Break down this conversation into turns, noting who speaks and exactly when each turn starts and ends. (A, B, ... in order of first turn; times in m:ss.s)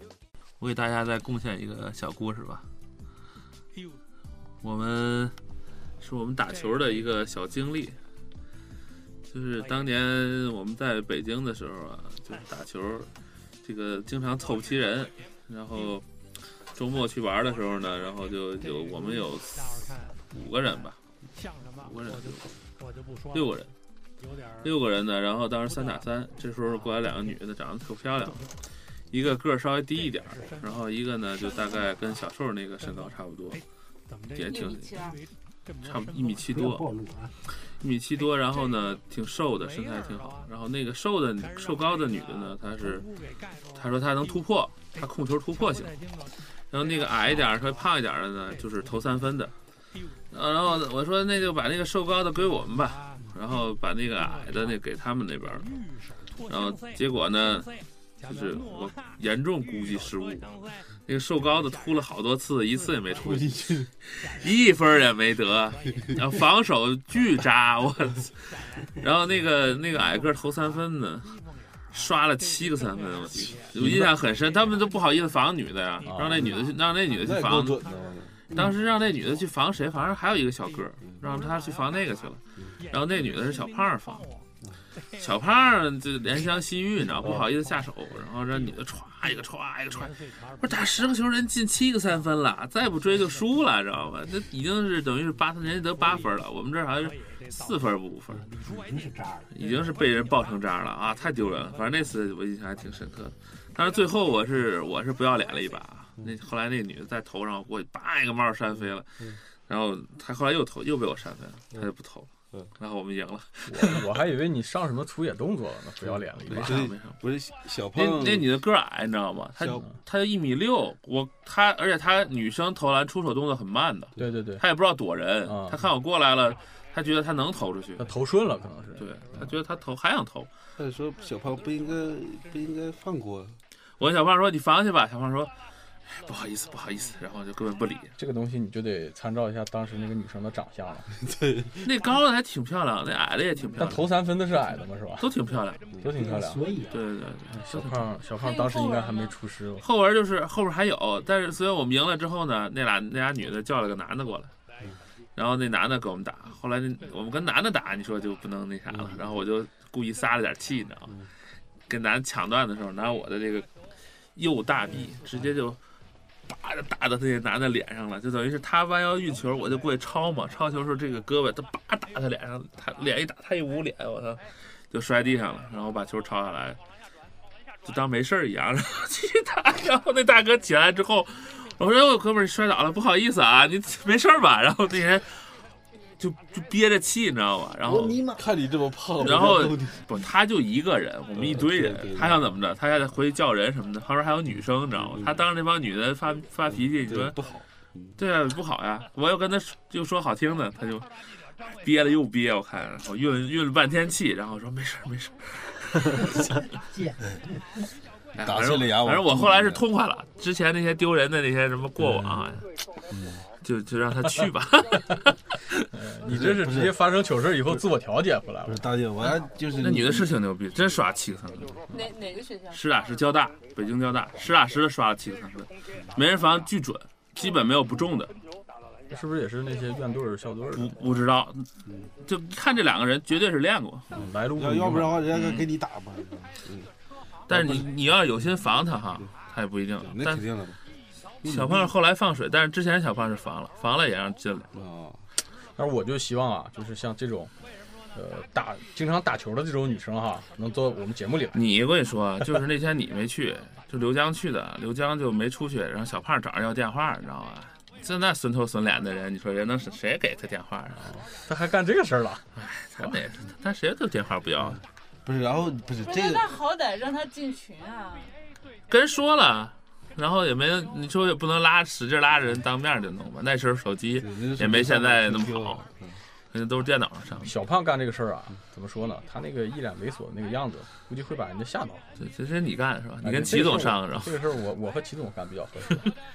0:00.6-0:02.6 A
0:03.7-0:04.0 B
0:04.6-0:05.3 A
0:06.0-0:08.0 A
0:06.4-0:07.3 B
0:09.3-0:13.1 A
0:09.6-0:10.0 B
0:12.3-0:12.6 B
0:13.6-0:16.1 A
0:16.8-0:21.0 A
0:18.5-0:25.0 B
0:21.8-0:22.5 A
0:23.3-0:23.7 A
0:24.6-0:28.4 A
0:25.6-0:28.7 B
0:29.1-0:33.6 A
0:29.9-0:36.9 B
0:34.3-0:34.9 A
0:34.5-0:35.2 C
0:35.8-0:36.9 A
0:36.5-0:37.3 D
0:37.8-0:43.1 A
0:38.1-0:51.6 B
0:43.7-0:45.9 A
0:46.7-0:49.5 A
0:50.3-0:55.7 A
0:52.3-1:19.8 B
0:56.5-0:57.7 A
0:58.2-1:00.5 A
1:01.1-1:03.5 A
1:03.2-1:03.9 E
1:04.1-1:11.3 A
1:11.9-1:17.8 A
1:13.8-1:14.1 E
1:16.0-1:16.5 F
1:17.2-1:18.7 E
1:18.5-1:24.3 A
1:20.4-1:34.4 B
1:25.2-1:38.5 A
1:35.6-1:43.2 B
1:38.4-1:39.5 D
1:39.5-1:49.1 A
1:43.8-1:44.5 B
1:49.7-1:54.1 A
1:53.7-1:56.8 F
1:56.0-1:58.6 E
1:56.5-1:57.2 A
1:57.9-2:08.1 A
1:59.6-1:59.9 E
2:04.2-2:04.6 F
2:05.4-2:05.8 F
2:08.0-2:09.1 F
2:09.0-2:10.5 A
2:10.8-2:13.6 E
2:14.0-2:15.5 A
2:16.1-2:18.1 A
2:18.2-2:21.1 F
2:21.3-2:21.8 E
2:21.8-2:24.1 A
2:23.8-2:25.3 F
2:25.2-2:25.9 A
2:26.0-2:26.6 F
2:26.2-2:27.0 D
2:26.9-2:27.7 A
2:27.5-2:29.9 F
2:28.3-2:29.4 C
2:29.8-2:34.5 A
2:35.4-2:41.2 A
2:38.9-2:39.2 E
2:41.9-2:43.7 A
2:44.4-2:45.8 A
2:46.5-2:56.8 A
2:57.8-3:05.5 A
3:06.2-3:08.4 A
3:07.8-3:10.0 E
3:09.2-3:17.4 A
3:11.4-3:12.5 E
3:15.0-3:15.4 E
3:16.8-3:18.2 E
3:18.2-3:21.1 A
3:21.6-3:26.5 A
3:26.9-3:27.2 D
3:28.4-3:32.6 A
3:28.4-3:29.8 E
3:33.1-3:33.4 E
3:33.6-3:35.8 A
3:35.9-3:38.9 F
3:36.3-3:37.0 E
3:38.7-3:40.3 E
3:39.2-3:41.9 A
3:41.9-3:42.8 C
3:42.7-3:48.3 A
3:49.1-3:51.0 F
3:50.7-3:51.7 A
3:52.2-3:54.1 A
3:54.1-3:55.2 F
3:54.1-3:56.9 E
3:55.3-3:55.7 A
3:57.5-3:57.9 E
3:57.5-4:00.4 A
4:00.0-4:00.8 E
4:01.4-4:01.9 E
4:01.4-4:04.7 A
4:04.7-4:05.2 E
4:05.8-4:07.5 F
4:08.1-4:11.6 F
4:11.5-4:21.0 A
4:21.1-4:22.5 F
4:22.6-4:24.8 A
4:25.2-4:26.4 E
4:26.0-4:28.3 C
4:28.9-4:35.8 A
4:34.2-4:36.2 E
4:36.5-4:37.5 A
4:37.4-4:42.1 F
4:42.2-4:44.4 A
4:43.2-4:46.1 F